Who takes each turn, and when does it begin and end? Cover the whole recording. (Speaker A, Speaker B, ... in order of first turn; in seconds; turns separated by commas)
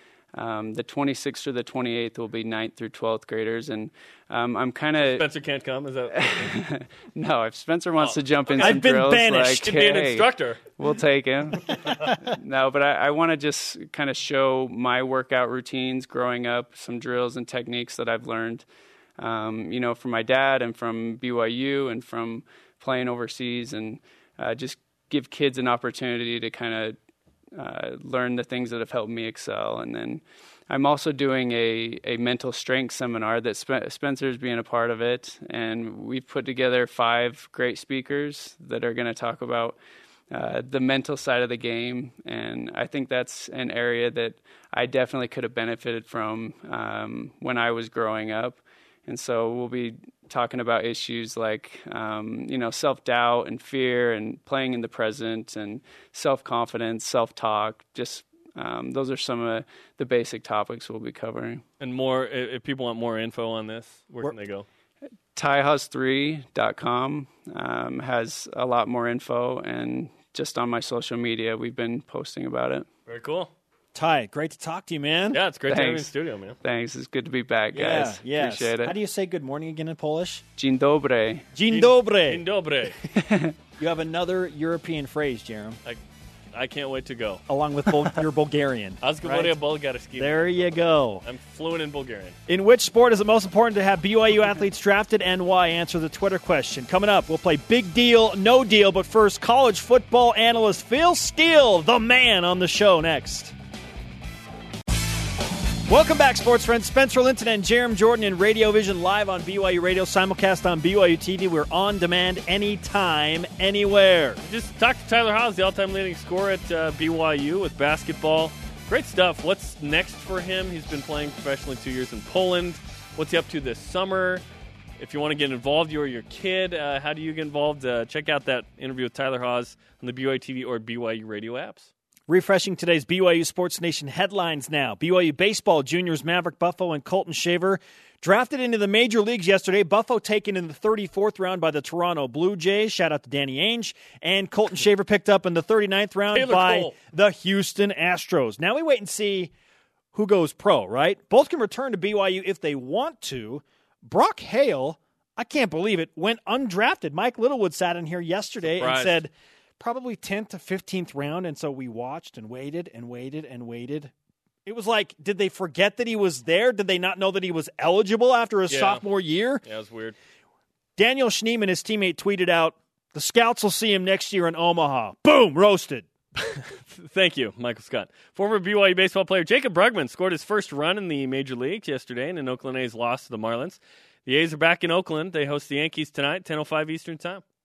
Speaker A: 0.3-5.3, Speaker B: 5.0-6.7, Speaker A: 6.2-18.6, Speaker B: 8.0-8.8, Speaker C: 8.6-9.8, Speaker B: 9.6-10.6, Speaker A: 19.2-27.0, Speaker A: 27.5-39.8, Speaker A: 40.3-61.6, Speaker B: 61.8-64.7, Speaker A: 65.3-72.9, Speaker B: 73.1-73.5, Speaker C: 73.9-75.4, Speaker B: 75.3-76.6, Speaker A: 75.7-76.1, Speaker A: 76.6-78.9, Speaker C: 77.7-80.4, Speaker A: 80.6-81.5, Speaker C: 81.5-82.4, Speaker B: 81.7-83.0, Speaker A: 83.1-83.5, Speaker C: 83.8-85.8, Speaker B: 86.5-87.4, Speaker C: 87.5-89.6, Speaker B: 89.0-92.4, Speaker C: 90.2-91.2, Speaker C: 92.5-103.5, Speaker C: 105.9-114.4, Speaker B: 114.4-124.4, Speaker B: 125.0-131.9, Speaker C: 132.3-149.5, Speaker B: 146.3-146.9, Speaker C: 150.1-164.1, Speaker B: 158.6-159.2, Speaker C: 164.7-169.6, Speaker B: 168.7-169.0, Speaker B: 169.6-170.1, Speaker C: 171.0-176.1, Speaker B: 176.9-187.4